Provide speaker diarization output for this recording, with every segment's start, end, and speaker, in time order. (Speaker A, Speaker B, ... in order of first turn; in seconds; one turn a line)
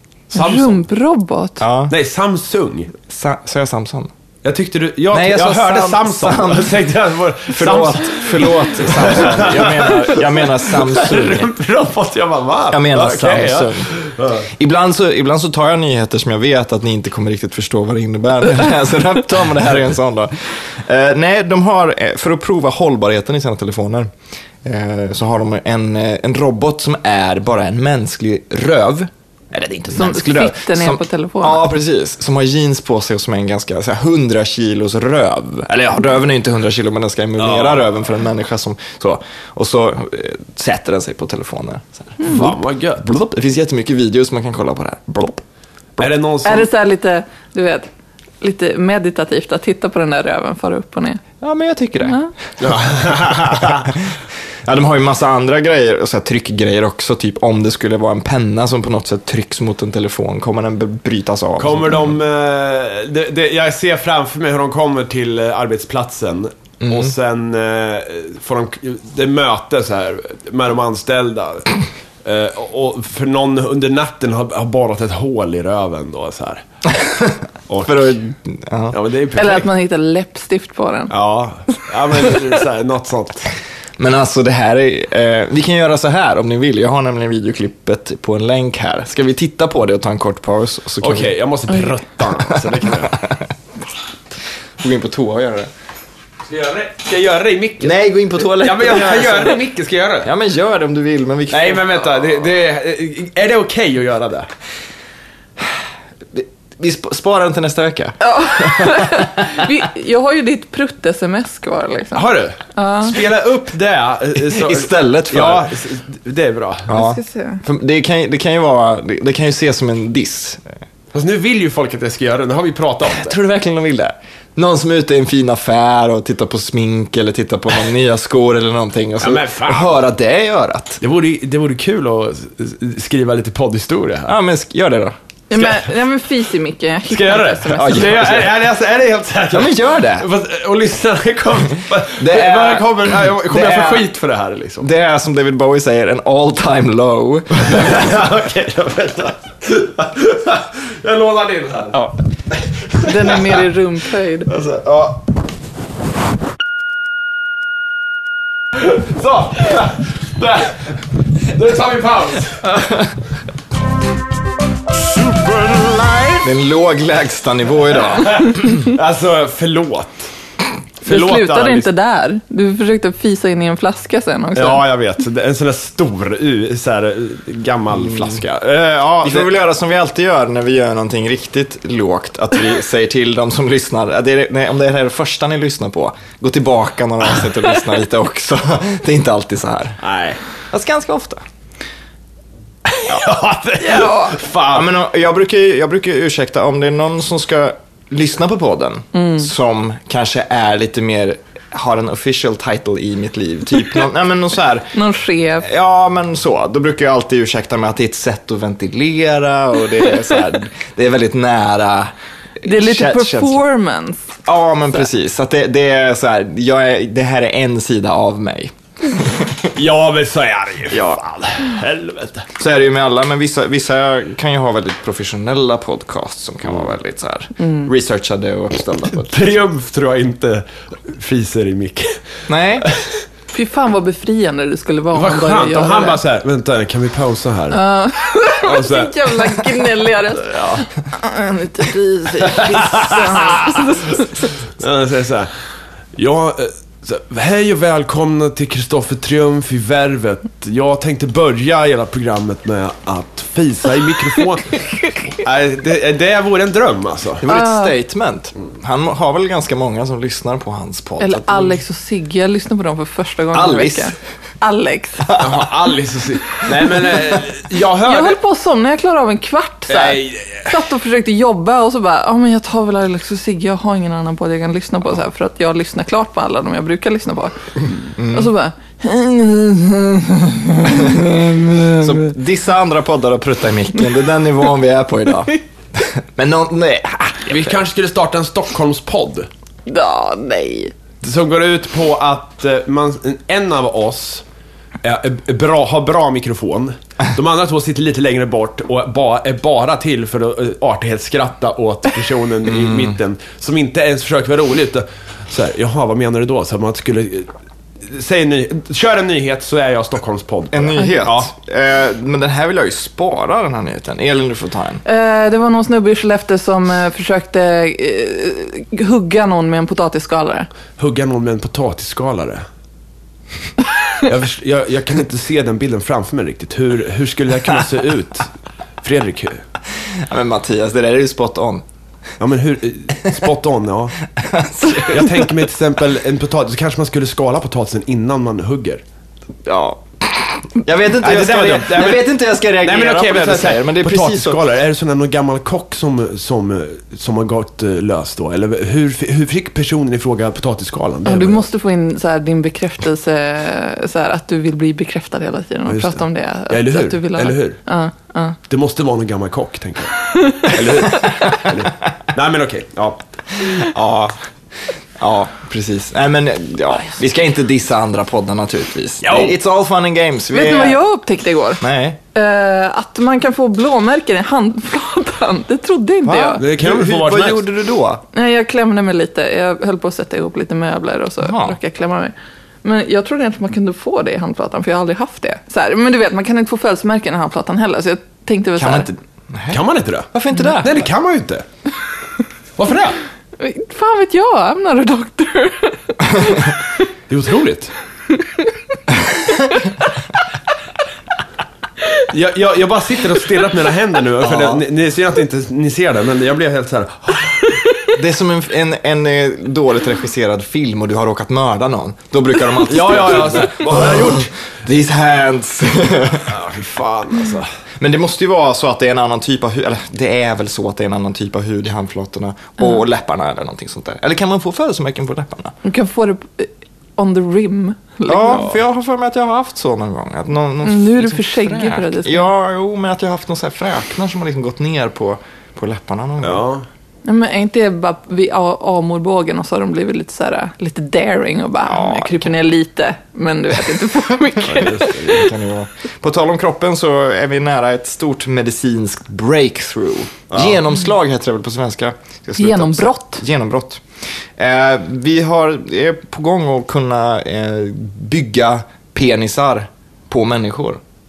Speaker A: 0.3-0.8
Speaker B: 0.3-1.6
Speaker C: 1.6-1.9
Speaker A: 1.9-2.9
Speaker C: 3.1-4.1
Speaker A: 4.4-14.5
Speaker C: 5.1-6.9
Speaker C: 7.5-11.5
Speaker C: 12.7-13.9
Speaker C: 14.5-24.1
Speaker C: 24.6-45.4
Speaker B: 29.9-31.6
Speaker A: 37.4-37.8
Speaker A: 42.2-43.0
Speaker A: 46.0-46.7
Speaker B: 46.4-47.9
Speaker B: 48.4-51.2
Speaker C: 51.4-62.2
Speaker B: 52.0-52.3
Speaker A: 52.6-53.7
Speaker A: 61.6-76.6
Speaker C: 66.8-67.1
Speaker C: 76.9-79.0
Speaker A: 77.7-78.2
Speaker A: 78.9-79.7
Speaker B: 79.3-81.1
Speaker A: 81.1-83.5
Speaker C: 84.0-91.3
Speaker A: 91.0-93.2
Speaker C: 94.8-95.7
Speaker A: 96.5-100.3
Speaker C: 97.8-99.6
Speaker C: 100.2-102.4
Speaker A: 101.5-104.5
Speaker C: 106.3-109.7
Speaker B: 108.2-112.2
Speaker A: 112.1-116.9
Speaker B: 112.7-113.1
Speaker C: 114.4-115.7
Speaker C: 116.9-120.6
Speaker B: 116.9-117.6
Speaker A: 121.1-123.4
Speaker C: 123.1-131.0
Speaker A: 129.2-130.0
Speaker A: 131.0-134.3
Speaker C: 134.3-135.1
Speaker B: 135.5-138.3
Speaker A: 135.6-135.8
Speaker A: 137.1-144.9
Speaker C: 137.7-138.6
Speaker C: 139.5-140.3
Speaker C: 142.2-144.1
Speaker C: 144.8-148.0
Speaker A: 147.5-152.0
Speaker A: 152.5-153.6
Speaker B: 153.0-154.5
Speaker A: 154.5-155.2
Speaker A: 158.8-162.7
Speaker C: 162.7-163.1
Speaker A: 165.2-166.4
Speaker C: 166.4-168.7
Speaker A: 168.2-170.3
Speaker A: 171.0-171.9
Speaker B: 171.1-174.8
Speaker A: 174.6-179.5
Speaker C: 178.1-178.4
Speaker C: 179.2-190.0
Speaker A: 190.0-190.4
Speaker C: 190.7-191.4
Speaker A: 192.9-194.9
Speaker B: 193.8-194.4
Speaker C: 194.7-204.9
Speaker B: 199.1-199.5
Speaker B: 204.9-205.7
Speaker C: 205.6-213.6
Speaker B: 212.6-214.3
Speaker C: 214.4-219.7
Speaker A: 219.7-222.5
Speaker C: 220.9-221.2
Speaker C: 222.6-229.5
Speaker A: 229.2-232.2
Speaker C: 232.5-232.9
Speaker A: 232.8-233.1
Speaker B: 233.5-236.2
Speaker A: 235.1-237.8
Speaker B: 237.7-244.5
Speaker A: 238.5-239.3
Speaker A: 242.4-243.8
Speaker A: 244.8-245.5
Speaker A: 246.1-257.4
Speaker C: 257.4-261.8
Speaker B: 257.4-257.9
Speaker B: 261.2-265.4
Speaker C: 263.5-264.1
Speaker C: 265.3-265.7
Speaker A: 265.4-268.4
Speaker B: 268.1-282.3
Speaker A: 269.9-270.7
Speaker C: 278.1-278.5
Speaker C: 280.9-281.4
Speaker C: 281.9-287.8
Speaker A: 287.5-289.5
Speaker B: 289.9-290.9
Speaker A: 291.2-294.4
Speaker A: 295.0-307.5
Speaker A: 308.0-311.5
Speaker C: 310.7-315.0
Speaker B: 315.1-320.7
Speaker A: 321.0-322.6
Speaker A: 324.2-328.5
Speaker A: 329.0-329.6
Speaker C: 330.1-331.8
Speaker A: 332.4-334.2
Speaker C: 334.4-335.6
Speaker A: 335.0-339.0
Speaker C: 339.6-344.6
Speaker A: 341.2-351.7
Speaker B: 351.3-358.6
Speaker A: 355.9-357.8
Speaker A: 358.7-363.2
Speaker B: 360.3-360.6
Speaker C: 363.8-364.3
Speaker C: 365.2-371.0
Speaker A: 369.2-369.6
Speaker B: 370.5-371.8
Speaker C: 371.8-372.2
Speaker B: 372.3-376.6
Speaker C: 376.2-378.2
Speaker A: 376.6-377.6
Speaker B: 378.3-389.1
Speaker C: 381.4-381.8
Speaker C: 388.8-391.1
Speaker A: 389.7-391.6
Speaker A: 392.8-393.2
Speaker B: 393.6-396.8
Speaker A: 397.3-397.9
Speaker B: 398.3-398.8
Speaker B: 399.4-399.9
Speaker A: 402.3-407.6
Speaker C: 404.4-404.8
Speaker C: 408.1-416.5
Speaker A: 412.8-414.5
Speaker A: 416.5-417.7
Speaker C: 418.0-425.7
Speaker B: 425.8-428.7
Speaker C: 428.3-436.6
Speaker B: 430.8-432.5
Speaker A: 436.4-436.8
Speaker B: 437.2-445.2
Speaker C: 441.9-442.5
Speaker A: 444.7-445.5
Speaker C: 445.1-454.0
Speaker A: 450.5-450.8
Speaker B: 452.6-453.4
Speaker C: 454.6-461.0